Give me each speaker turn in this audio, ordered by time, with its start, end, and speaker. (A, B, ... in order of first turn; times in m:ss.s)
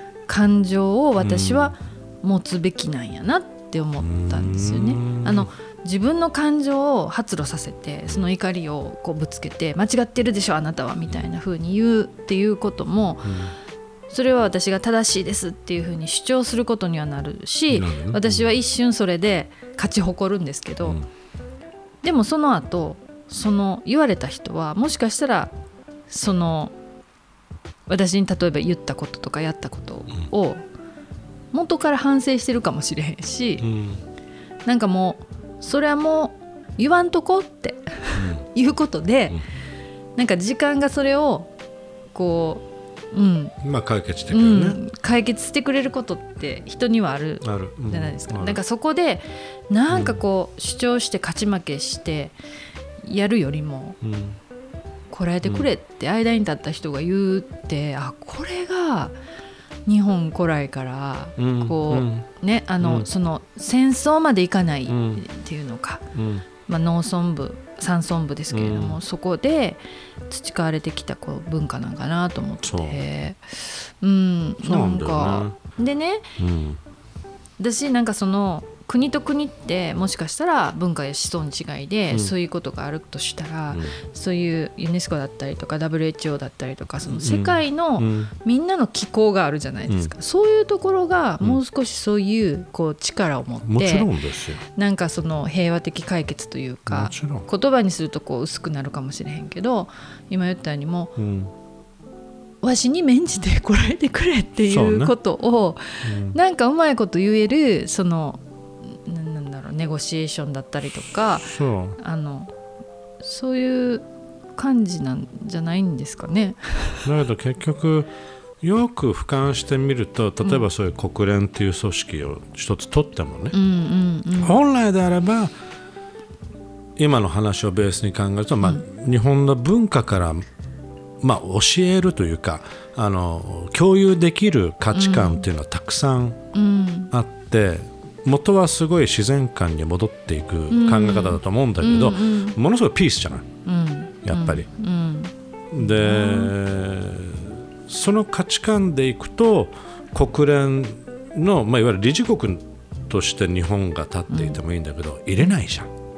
0:00.3-0:13.4 A
0:01.2-0:01.8 B
0:04.0-0:05.5 B
0:13.2-0:13.6 B
0:14.1-0:21.0 A
0:17.7-0:18.6 B
0:22.0-0:25.5 A
0:26.1-0:26.7 A
0:27.9-0:30.6 A
0:31.5-0:33.7 A
0:33.6-0:34.0 B
0:34.7-0:39.4 A
0:38.2-0:38.5 B
0:40.2-0:41.5 A
0:42.1-0:43.6 A
0:43.6-0:44.8 B
0:44.3-0:52.4 A
0:47.4-0:48.6 B
0:49.9-0:50.2 B
0:53.0-0:54.0 A
0:54.0-0:54.4 B
0:55.1-0:59.2 A
0:59.9-1:06.0 A
1:01.4-1:02.3 B
1:02.8-1:03.1 B
1:04.9-1:05.2 B
1:06.1-1:06.5 B
1:06.7-1:16.3 A
1:08.5-1:09.0 B
1:12.6-1:13.0 B
1:14.6-1:15.6 B
1:16.4-1:16.8 B
1:17.6-1:34.1 A
1:23.7-1:24.0 B
1:27.1-1:28.3 B
1:33.6-1:34.6 B
1:34.7-1:41.1 A
1:36.9-1:37.5 B
1:41.2-1:41.5 B
1:42.6-1:52.5 A
1:44.7-1:45.1 B
1:46.0-1:46.4 B
1:51.5-1:52.0 B
1:53.2-1:57.1 A
1:57.0-1:58.1 B
1:58.6-2:03.6 B
2:03.5-2:04.6 A
2:04.4-2:05.5 B
2:07.0-2:10.5 B
2:11.2-2:16.4 B
2:14.9-2:15.5 A
2:16.5-2:17.1 A
2:17.1-2:23.5 B
2:20.7-2:22.6 A
2:23.7-2:26.5 A
2:24.2-2:24.7 B
2:25.7-2:35.9 B
2:34.3-2:34.6 A